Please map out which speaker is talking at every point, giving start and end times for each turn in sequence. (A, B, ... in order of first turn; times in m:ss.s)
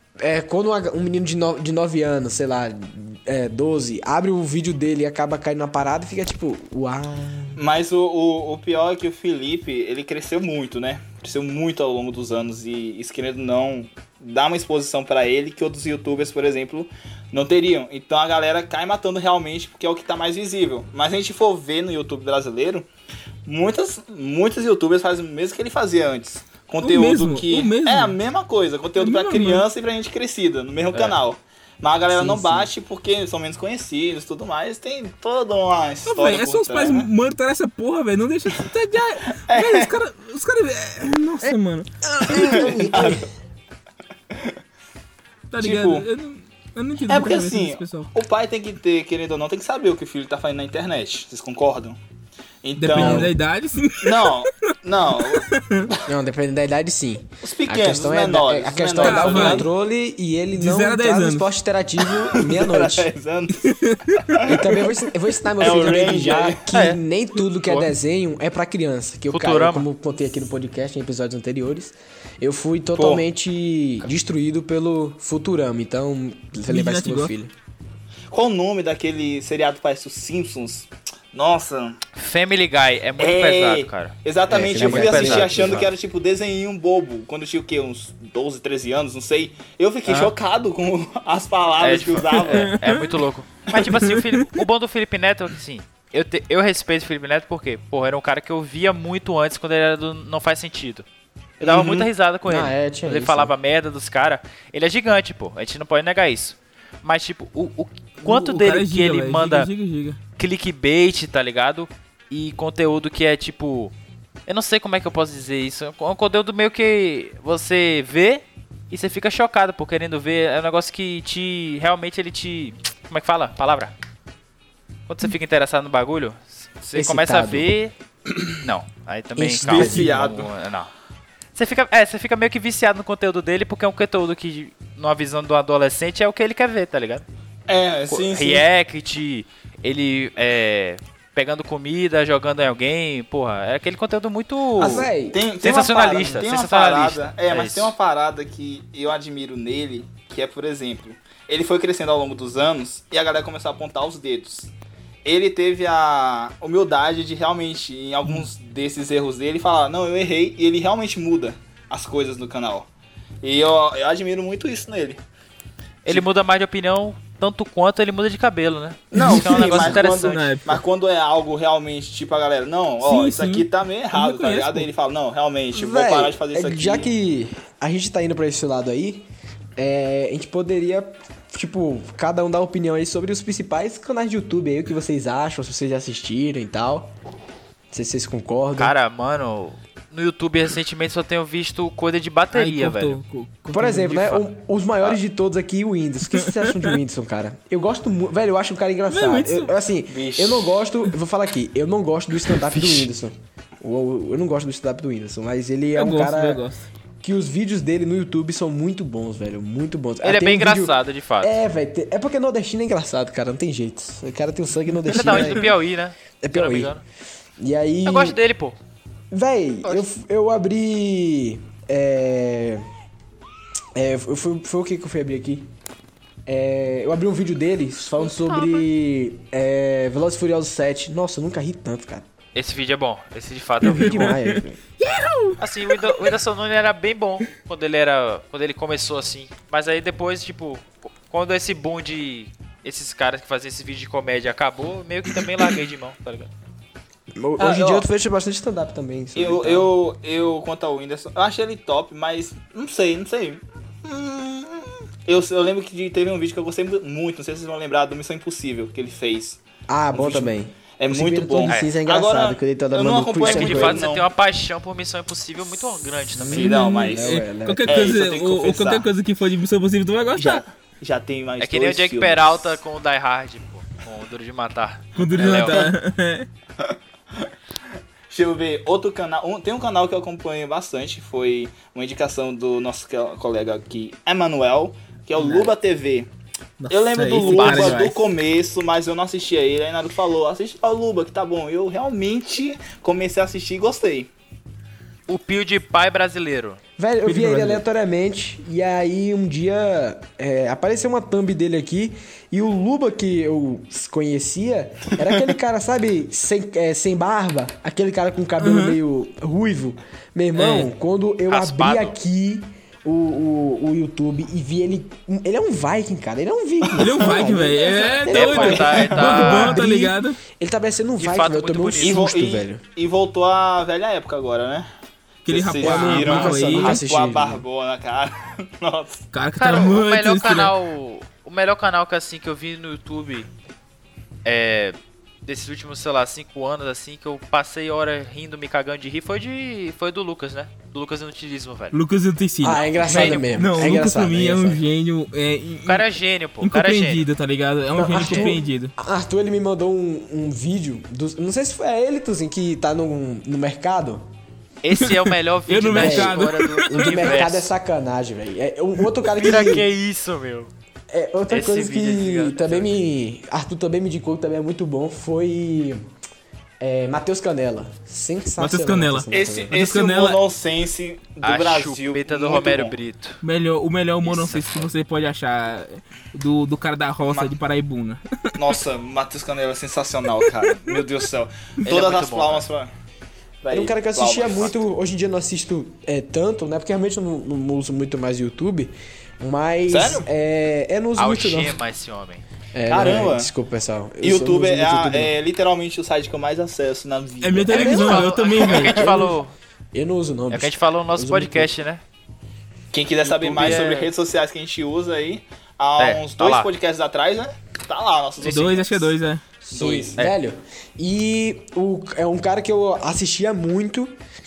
0:00.2-0:07.6 A
0:07.6-0:22.9 B
0:23.5-0:37.1 B
0:26.8-0:28.2 C
0:29.0-0:29.6 C
0:32.1-0:32.7 A
0:36.1-0:42.7 C
0:39.5-0:39.9 B
0:42.1-0:43.3 A
0:42.3-0:43.2 B
0:45.5-0:48.1 C
0:45.6-0:46.1 B
0:47.1-0:52.0 B
0:52.6-0:53.3 B
0:52.8-0:54.5 C
0:52.9-0:53.3 A
0:54.0-0:56.0 B
0:55.2-0:55.9 C
0:56.1-1:03.1 A
0:57.4-0:59.7 B
0:59.0-0:59.7 C
1:00.6-1:01.5 C
1:02.3-1:04.9 B
1:03.6-1:04.4 C
1:04.4-1:17.5 A
1:05.6-1:06.6 B
1:06.7-1:07.0 D
1:09.3-1:09.9 D
1:13.0-1:13.2 B
1:16.7-1:17.3 C
1:18.3-1:22.0 B
1:22.2-1:24.2 D
1:23.2-1:32.8 B
1:24.5-1:25.9 A
1:24.7-1:25.9 D
1:30.1-1:30.3 D
1:31.8-1:41.1 D
1:32.5-1:33.0 C
1:33.9-1:34.5 C
1:41.6-1:49.7 D
1:41.6-1:42.1 B
1:42.5-1:43.5 A
1:48.2-1:50.2 C
1:50.4-1:53.9 D
1:54.5-2:03.9 D
2:05.1-2:07.9 D
2:07.0-2:07.7 A
2:08.6-2:10.9 D
2:09.4-2:10.2 A
2:09.6-2:10.5 B
2:11.6-2:17.2 D
2:17.7-2:18.6 B
2:18.1-2:28.0 D
2:24.8-2:25.4 A
2:25.3-2:34.7 B
2:35.2-2:42.9 B
2:43.4-2:45.2 B
2:46.0-2:50.5 D
2:49.1-2:57.1 B
2:49.1-2:50.8 C
2:49.5-2:50.0 A
2:53.0-2:54.9 C
2:55.7-2:59.3 A
2:59.8-3:07.1 A
3:07.9-3:08.9 A
3:08.8-3:13.2 D
3:12.5-3:14.3 C
3:13.7-3:26.6 A
3:14.1-3:14.4 D
3:16.3-3:17.0 C
3:19.1-3:19.7 C
3:20.1-3:20.8 B
3:22.7-3:23.1 D
3:26.0-3:26.8 C
3:27.2-3:35.7 A
3:30.2-3:31.6 D
3:35.1-3:37.0 D
3:35.1-3:35.6 C
3:36.4-3:37.0 A
3:37.6-3:38.4 A
3:38.1-3:38.8 D
3:39.3-3:42.8 A
3:44.0-3:45.7 A
3:46.5-3:52.3 A
3:48.2-3:48.8 D
3:52.6-3:54.4 D
3:53.8-3:54.8 A
3:53.8-3:56.3 C
3:55.6-4:06.5 D
4:07.4-4:09.9 A
4:07.6-4:08.1 B
4:09.4-4:19.6 B
4:19.9-4:24.0 A
4:20.1-4:24.3 B
4:21.7-4:21.9 D
4:23.4-4:26.8 D
4:26.4-4:28.1 A
4:26.5-4:29.1 B
4:26.6-4:30.6 C
4:30.4-4:32.6 B
4:31.6-4:35.9 D
4:35.2-4:36.5 C
4:38.3-4:46.3 B
4:46.8-4:48.2 C
4:46.9-4:54.3 B
4:47.4-4:48.1 D
4:55.3-4:56.8 D
4:57.0-5:22.8 A
4:57.2-4:57.8 C
5:08.6-5:09.0 C
5:10.6-5:10.9 C
5:11.5-5:12.2 D
5:16.8-5:17.5 B
5:17.0-5:20.4 C
5:18.3-5:19.8 D
5:18.6-5:19.5 B
5:21.2-5:22.3 D
5:22.0-5:24.9 B
5:25.4-5:27.0 C
5:25.5-5:29.3 B
5:25.8-5:27.6 A
5:29.3-5:30.7 C
5:29.6-5:33.5 D
5:34.4-5:42.0 D
5:41.9-5:46.1 C
5:42.6-5:44.8 A
5:42.9-5:43.6 D
5:45.8-5:47.2 D
5:46.6-5:48.9 C
5:48.0-5:54.2 A
5:48.2-5:48.5 D
5:54.8-5:57.7 D
5:55.0-5:57.4 C
5:55.9-5:59.9 A
5:59.3-6:00.7 D
6:01.1-6:06.1 A
6:01.5-6:02.9 D
6:06.8-6:09.7 A
6:08.6-6:10.4 C
6:09.3-6:13.0 B
6:11.4-6:13.4 D
6:13.4-6:18.8 C
6:14.2-6:14.9 D
6:17.3-6:17.5 B
6:18.6-6:22.9 B
6:20.4-6:21.0 C
6:21.8-6:22.7 D
6:23.6-6:24.8 B
6:23.7-6:31.8 A
6:29.9-6:30.3 B
6:31.2-6:32.4 D
6:32.7-6:35.4 A
6:32.9-6:33.5 B
6:34.2-6:39.0 B
6:37.4-6:39.3 C
6:37.7-6:39.5 D
6:37.8-6:38.2 A
6:39.0-6:39.4 A
6:39.9-6:41.7 A
6:40.5-6:42.0 D
6:42.9-6:49.1 B
6:43.2-6:44.1 D
6:46.0-6:46.7 D
6:48.4-6:49.4 C
6:49.7-6:54.2 A
6:49.7-6:50.2 B